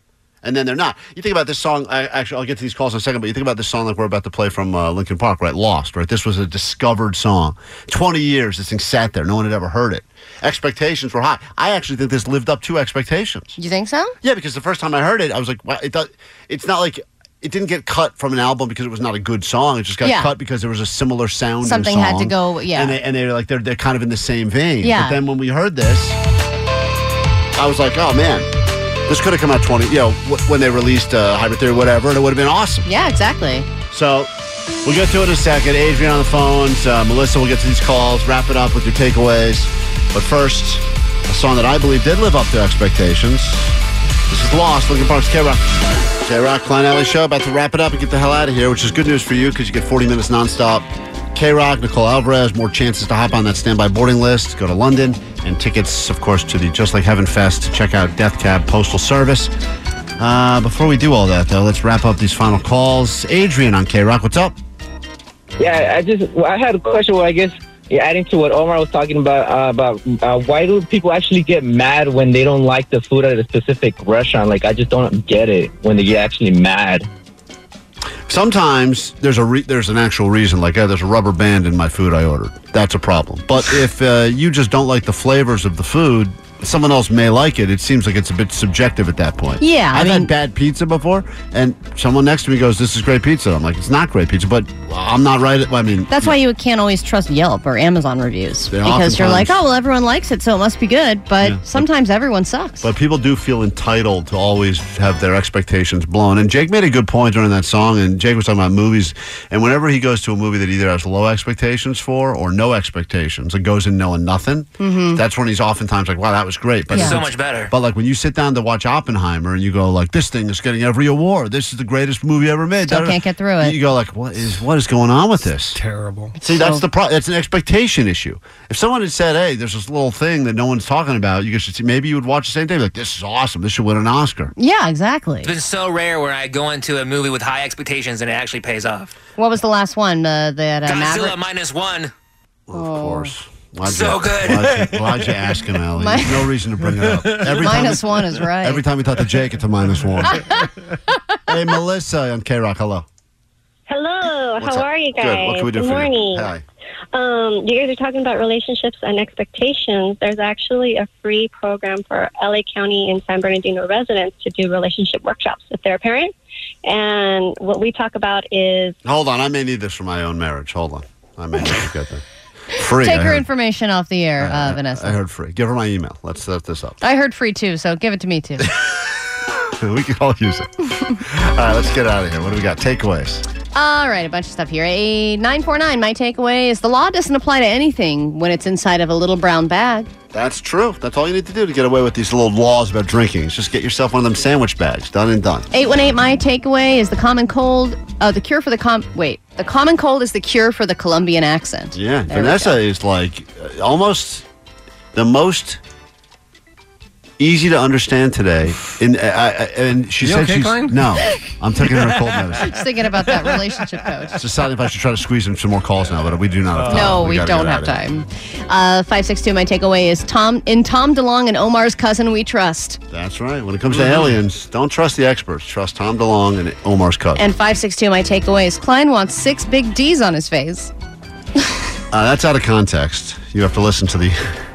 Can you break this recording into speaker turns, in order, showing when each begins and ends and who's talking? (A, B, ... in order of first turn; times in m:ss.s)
0:00.4-0:13.6 A
0:13.6-0:14.2 B
0:14.2-0:26.2 A
0:20.0-0:20.3 B
0:21.6-0:23.0 B
0:24.8-0:25.2 B
0:27.6-0:28.5 A
0:29.1-0:32.9 A
0:32.8-0:33.7 B
0:33.9-0:34.3 A
0:34.8-0:43.8 A
0:44.3-0:59.5 A
1:00.2-1:04.6 A
1:05.6-1:17.0 C
1:18.3-1:36.3 A
1:29.6-1:30.3 B
1:36.1-1:42.8 B
1:38.7-1:39.6 A
1:41.4-1:41.8 A
1:42.8-2:05.8 A
1:54.8-1:55.2 B
1:56.9-1:57.7 D
2:02.8-2:03.8 B
2:05.7-2:06.3 E
2:06.4-2:14.5 A
2:06.4-2:06.8 B
2:14.6-2:15.5 B
2:15.4-2:19.1 D
2:19.4-2:21.4 B
2:20.8-2:22.1 D
2:22.7-2:30.4 A
2:22.7-2:23.3 B
2:23.8-2:24.7 D
2:24.7-2:25.3 E
2:26.0-2:26.5 B
2:27.6-2:28.8 B
2:31.5-2:33.0 A
2:33.9-2:36.4 F
2:34.6-2:36.6 A
2:37.1-2:46.3 F
2:46.8-2:48.9 F
2:49.0-2:52.2 A
2:52.7-2:53.4 A
2:52.9-2:55.2 B
2:54.4-2:57.0 A
2:57.0-2:58.7 B
2:59.8-3:03.4 A
3:03.7-3:10.1 B
3:10.3-3:15.7 A
3:15.7-3:22.8 B
3:21.9-3:24.4 A
3:25.1-3:25.8 A
3:27.4-3:32.7 A
3:30.2-3:32.5 E
3:32.6-3:34.4 B
3:33.3-3:33.5 E
3:34.4-3:38.0 A
3:36.8-3:37.2 E
3:36.9-3:43.0 B
3:43.1-3:47.4 A
3:43.9-3:44.4 E
3:47.4-3:50.9 B
3:52.1-3:54.4 A